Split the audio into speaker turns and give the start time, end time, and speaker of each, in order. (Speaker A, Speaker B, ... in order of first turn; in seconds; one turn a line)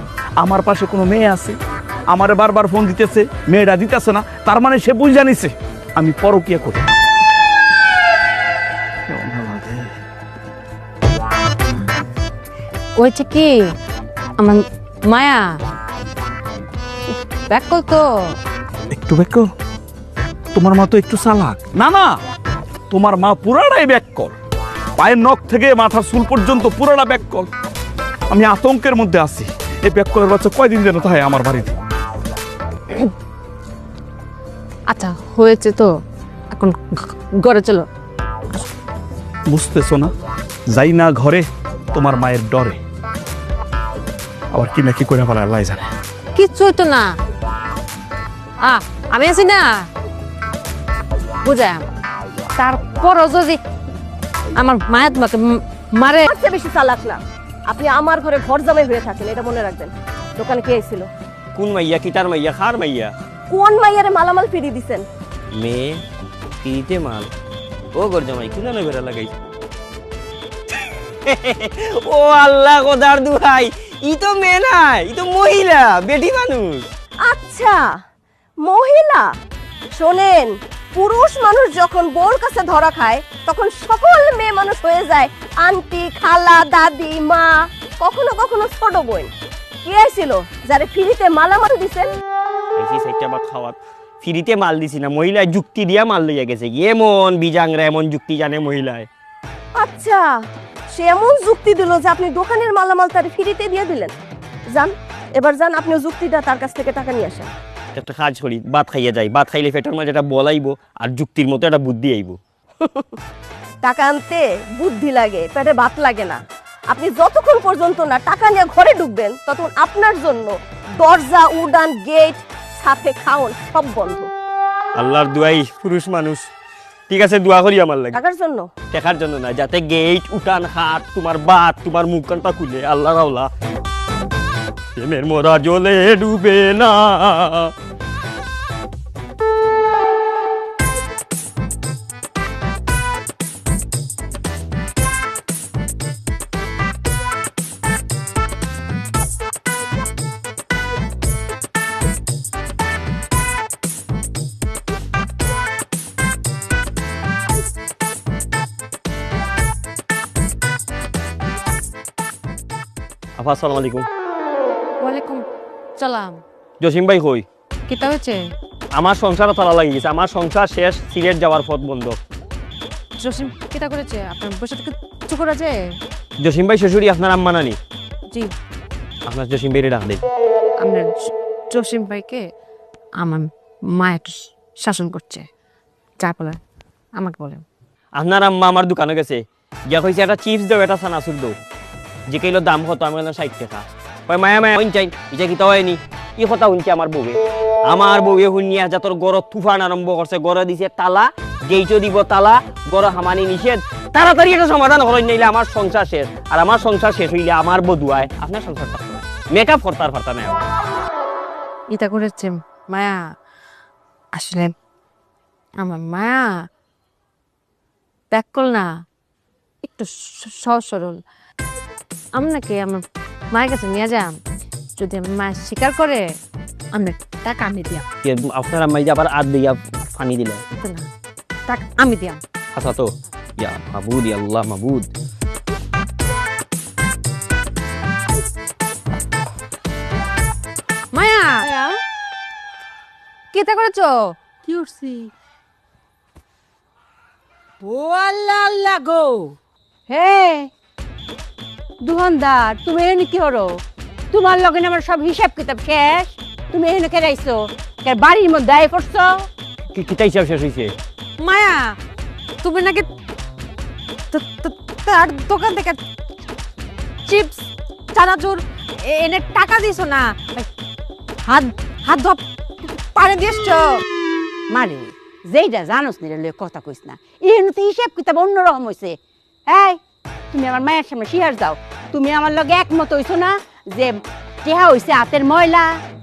Speaker A: 0.4-1.6
Speaker A: 2.1-6.8
Speaker A: 9.1-9.9
Speaker B: 13.0-13.5
Speaker B: 14.4-15.5
Speaker B: 17.1-18.0
Speaker A: 18.9-19.5
Speaker A: 20.5-22.2
Speaker A: 22.9-24.3
Speaker A: 25.0-27.5
Speaker A: 28.3-31.8
Speaker B: 34.9-35.9
Speaker B: 36.5-37.9
Speaker A: 39.5-40.1
Speaker A: 40.7-42.8
Speaker A: 44.5-45.8
Speaker B: 46.3-47.1
Speaker B: 48.6-49.9
Speaker B: 51.4-51.8
Speaker B: 52.6-53.6
Speaker B: 54.5-56.3
Speaker C: 56.2-61.1
Speaker D: 61.5-63.1
Speaker C: 63.5-65.0
Speaker D: 65.5-66.0
Speaker D: 66.5-67.3
Speaker D: 67.9-69.3
Speaker D: 71.2-76.9
Speaker C: 77.2-77.8
Speaker C: 78.6-79.3
Speaker C: 79.9-89.3
Speaker C: 89.8-92.1
Speaker D: 92.8-99.1
Speaker C: 99.8-100.3
Speaker C: 100.9-104.1
Speaker C: 104.7-107.5
Speaker D: 107.9-112.4
Speaker C: 113.8-124.3
Speaker D: 124.9-126.5
Speaker D: 127.1-128.2
Speaker C: 128.1-128.7
Speaker D: 128.9-133.5
Speaker D: 135.0-137.7
Speaker D: 163.4-164.1
Speaker B: 165.0-165.4
Speaker B: 166.0-166.4
Speaker D: 166.8-167.4
Speaker B: 167.9-168.4
Speaker D: 168.9-172.2
Speaker B: 173.2-175.7
Speaker D: 176.4-177.8
Speaker D: 179.3-180.2
Speaker B: 180.8-182.4
Speaker B: 183.2-185.4
Speaker B: 186.2-186.6
Speaker B: 187.2-187.6
Speaker D: 188.2-191.5
Speaker D: 192.3-210.7
Speaker B: 211.9-213.2
Speaker B: 214.3-214.7
Speaker B: 215.8-216.5
Speaker B: 218.3-218.9
Speaker B: 219.8-221.2
Speaker B: 222.3-224.3
Speaker B: 225.0-226.2
Speaker B: 226.9-228.0
Speaker D: 228.2-230.6
Speaker B: 230.8-231.1
Speaker B: 231.7-232.4
Speaker D: 232.7-235.1
Speaker B: 241.1-241.7
Speaker B: 243.5-244.3
Speaker E: 244.7-245.3
Speaker E: 247.8-249.6
Speaker E: 250.1-250.7
Speaker E: 252.0-259.5
Speaker D: 259.9-260.9
Speaker B: 261.4-262.0
Speaker B: 262.6-263.1
Speaker B: 264.3-266.0
Speaker B: 267.2-270.7
Speaker B: 271.4-274.0
Speaker E: 274.7-279.2
Speaker E: 279.7-280.0
Speaker E: 280.5-286.0